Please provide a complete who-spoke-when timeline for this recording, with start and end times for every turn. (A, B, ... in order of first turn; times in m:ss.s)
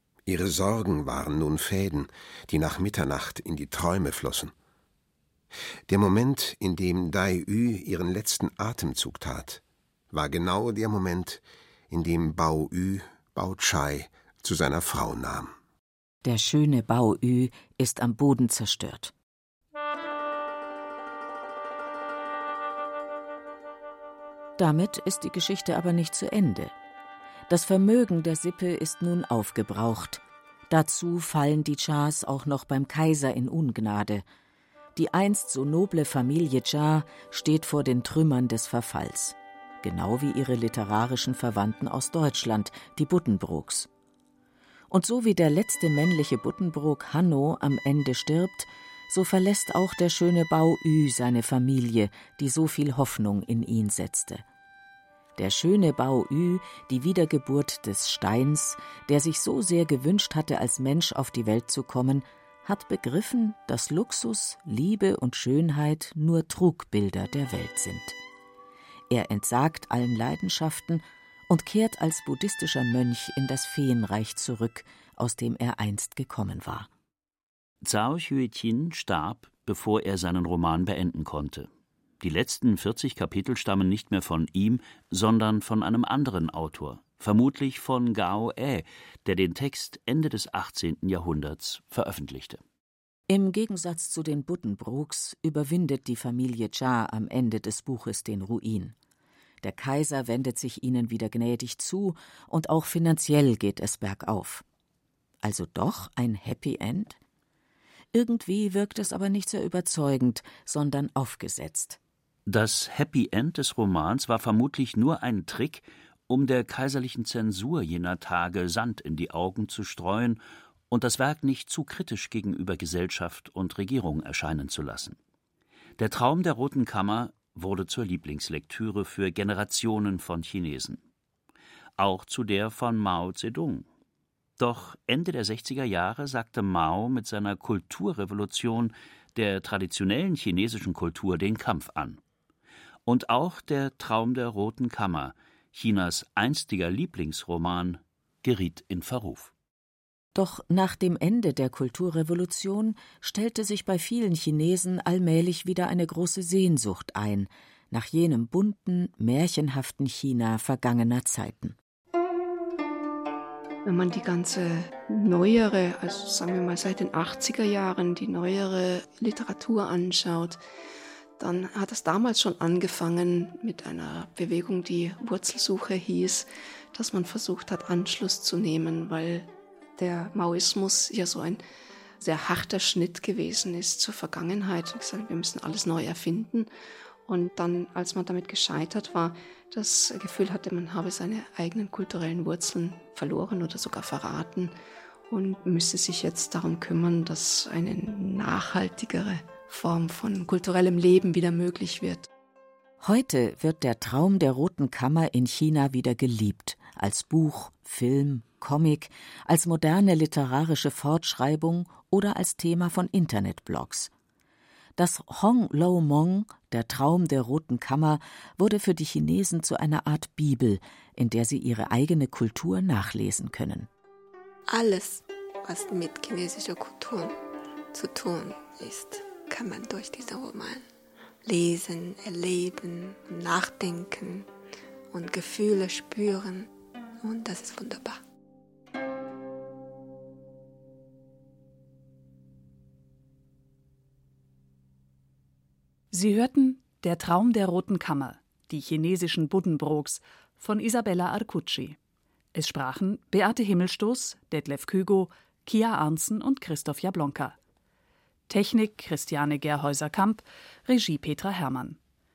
0:00.2-0:04.5 A
0:05.9-0:15.5 A
0:16.2-0:19.1 B
0:24.6-0:26.7 B
0:27.5-0:34.2 B
0:35.0-0:43.9 B
0:44.9-0:54.4 B
0:55.4-1:08.2 B
1:09.1-1:16.9 B
1:17.8-1:21.7 C
1:22.2-1:32.6 C
1:33.3-1:38.9 B
1:39.6-1:44.6 B
1:45.4-1:47.2 B
1:48.1-1:52.0 B
1:52.4-2:05.2 C
2:06.0-2:11.0 C
2:12.0-2:13.9 C
2:14.6-2:22.2 C
2:23.0-2:29.5 C
2:30.3-2:41.8 B
2:43.8-2:50.6 D
2:51.4-3:01.6 D
3:02.2-3:06.7 D
3:07.2-3:14.7 D
3:15.3-3:22.3 D
3:23.0-3:34.1 B
3:35.0-3:43.9 B
3:44.7-3:47.4 E
3:47.9-3:50.8 E
3:51.4-3:54.5 E
3:55.1-3:58.2 E
4:06.1-4:12.0 F
4:12.5-4:17.6 F
4:18.5-4:22.0 F